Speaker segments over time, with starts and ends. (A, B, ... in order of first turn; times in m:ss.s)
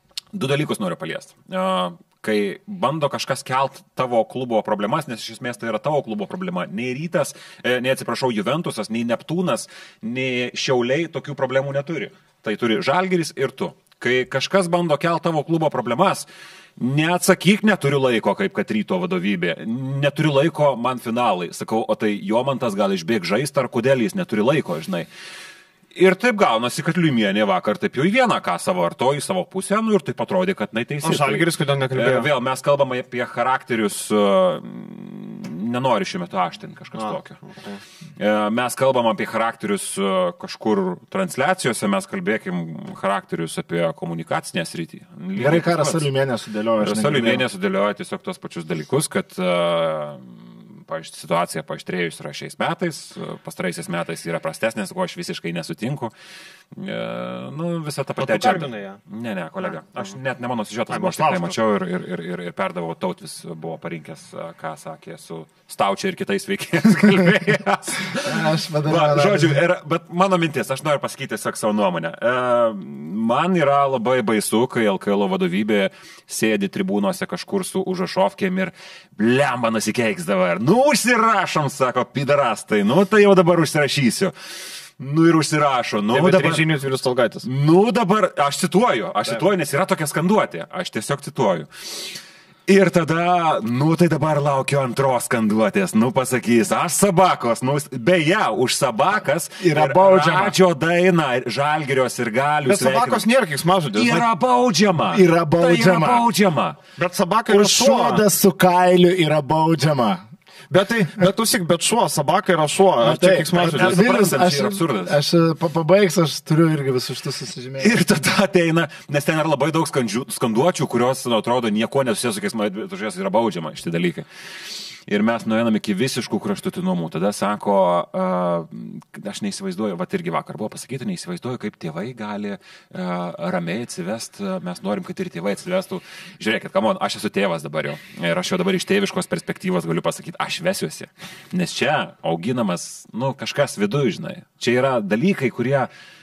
0:00.3-0:16.2 A
0:16.8-0:25.1 A
0:25.9-0:37.4 A
0:31.0-0:32.3 B
0:36.9-0:37.8 B
0:38.2-0:46.0 A
0:45.4-0:47.4 C
0:46.8-0:56.1 A
0:56.7-1:24.3 A
0:58.2-0:59.0 B
0:59.6-1:00.1 B
1:00.9-1:01.6 B
1:08.2-1:09.6 C
1:25.0-1:26.6 A
1:26.1-1:27.4 B
1:27.4-1:43.2 A
1:39.6-1:40.5 C
1:42.6-1:44.2 B
1:43.9-1:46.8 A
1:45.1-1:46.2 C
1:47.0-1:48.2 B
1:47.5-1:50.2 C
1:50.7-1:54.0 B
1:53.0-1:57.9 C
1:53.6-1:55.2 A
1:57.8-2:04.3 A
2:05.1-2:25.9 A